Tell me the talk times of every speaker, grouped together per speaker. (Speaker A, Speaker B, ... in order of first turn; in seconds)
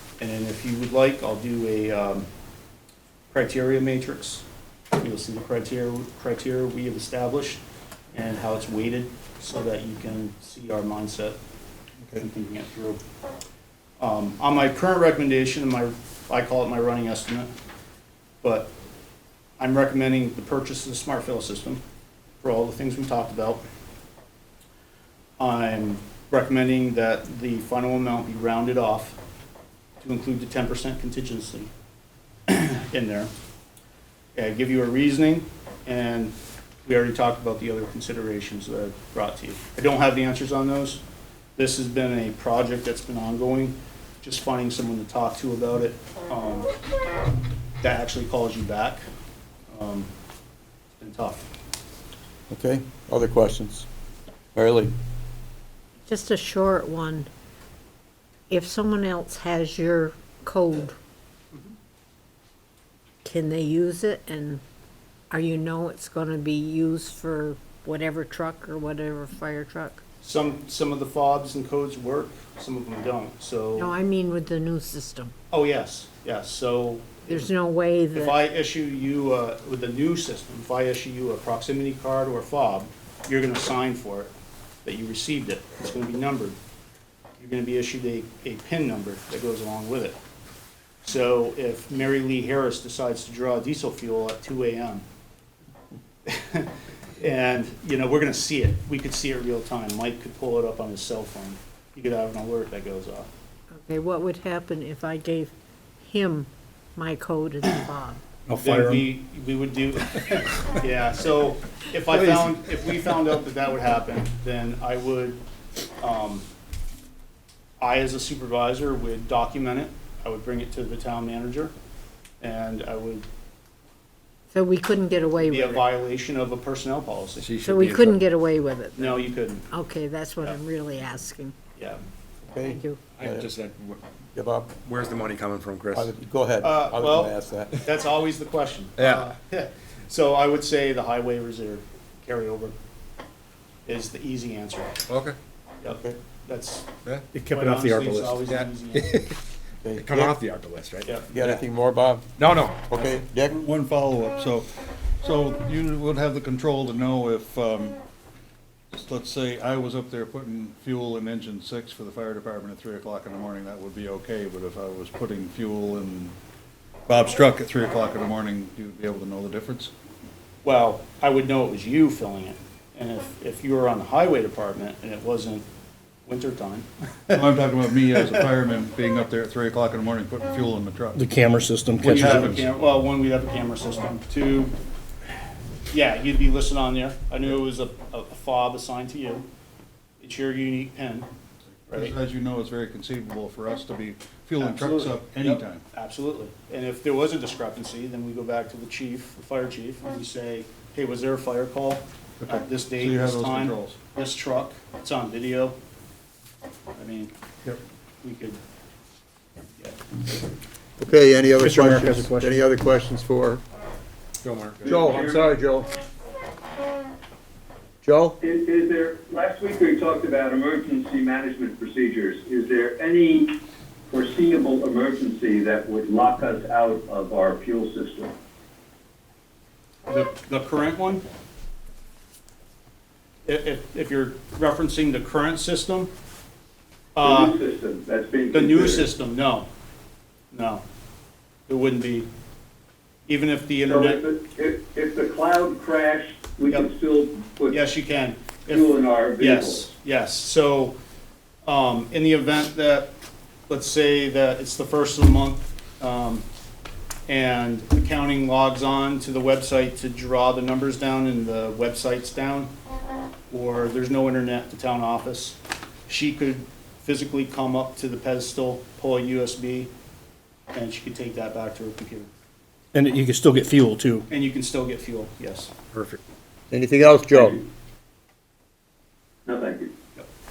Speaker A: 0.2-2.3, 3.3-4.5, 5.0-7.6, 8.1-11.4, 12.2-13.0, 14.0-17.5, 18.4-18.7, 19.6-21.8, 22.4-23.6, 25.4-29.2, 30.0-31.7, 32.5-33.3, 34.4-41.0, 41.6-46.7, 47.8-49.0, 49.7-50.1, 51.0-51.5, 70.2-73.9, 75.5-77.5, 78.1-84.3, 84.8-86.6, 87.4-90.2, 91.0-95.0, 96.3-103.3, 108.5-115.4, 116.0-116.5, 117.8-121.7, 122.4-123.2, 125.4-127.5, 129.0-129.7, 136.6-142.8, 143.9-144.9, 145.8-149.1, 151.1-151.5, 170.6-175.7, 176.3-177.4, 182.0-184.7, 185.9-189.5, 190.2-191.3, 194.6-205.8, 206.9-207.3, 208.2-208.6, 230.1-231.2, 233.5-236.1, 237.2-237.6, 238.5-239.7, 240.5-240.8, 241.7-242.3, 243.3-244.2, 247.7-250.9, 251.7-253.1, 253.7-256.4, 257.3-262.7, 263.5-269.9, 270.7-272.3, 274.3-275.7
Speaker B: 52.5-53.9, 54.5-54.9, 132.5-133.5, 134.3-134.8, 135.9-137.8, 145.9-146.2, 149.8-150.4, 151.3-152.3, 152.9-153.6, 211.0-213.6, 214.8-215.9, 218.0-218.4, 276.7-277.6
Speaker C: 56.0-57.3, 58.5-61.0, 63.2-64.6, 65.3-70.0, 73.8-75.3, 77.3-78.4, 103.7-108.2, 124.5-125.8, 127.6-131.6, 132.6-133.0
Speaker D: 108.5-109.0, 181.2-182.6, 211.6-212.4, 272.9-274.2
Speaker E: 127.4-128.2, 133.2-134.0, 134.8-136.1, 139.0-139.3, 145.1-145.4, 147.1-149.4, 149.9-151.6, 152.4-153.1, 214.4-215.0, 275.9-276.2
Speaker F: 153.4-154.7, 155.2-158.0, 158.9-166.3, 167.1-169.9, 177.3-181.3, 182.0-182.6, 191.9-195.8, 202.4-204.0
Speaker G: 214.8-215.5, 218.4-223.5, 224.1-228.3, 237.2-239.1, 243.9-247.8, 248.7-249.8, 279.5-279.9